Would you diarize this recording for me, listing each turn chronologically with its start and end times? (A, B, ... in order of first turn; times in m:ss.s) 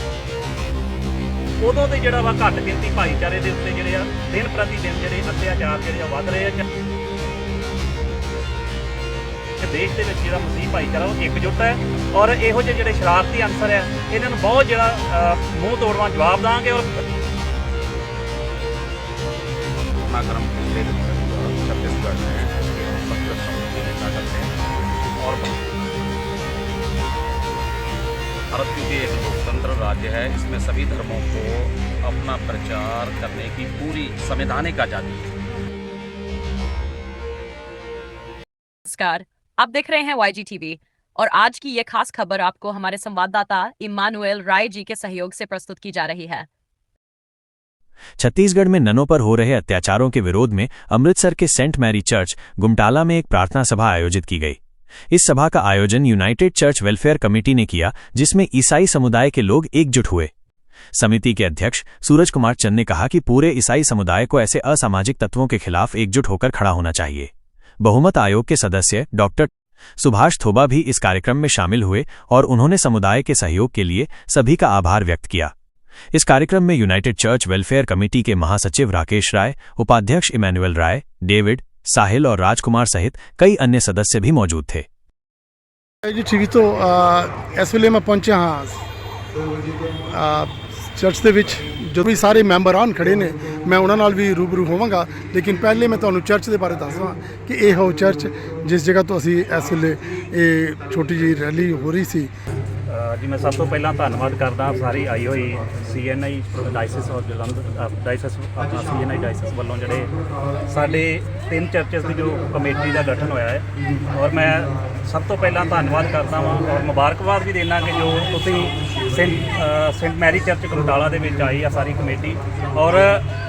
0:01.6-0:06.6 A
0:09.6-0:16.9 A
0:20.1-0:24.6 B
0:25.2-0:25.6 B
0:28.5-0:35.3 B
0:38.8-0:46.5 C
0:48.2-0:54.6 D
0:55.1-1:00.3 D
1:00.9-1:07.3 D
1:07.8-1:15.5 D
1:16.1-1:24.8 D
1:26.0-1:28.8 E
1:30.1-1:42.3 E
1:42.9-1:50.1 A
1:50.7-2:03.2 A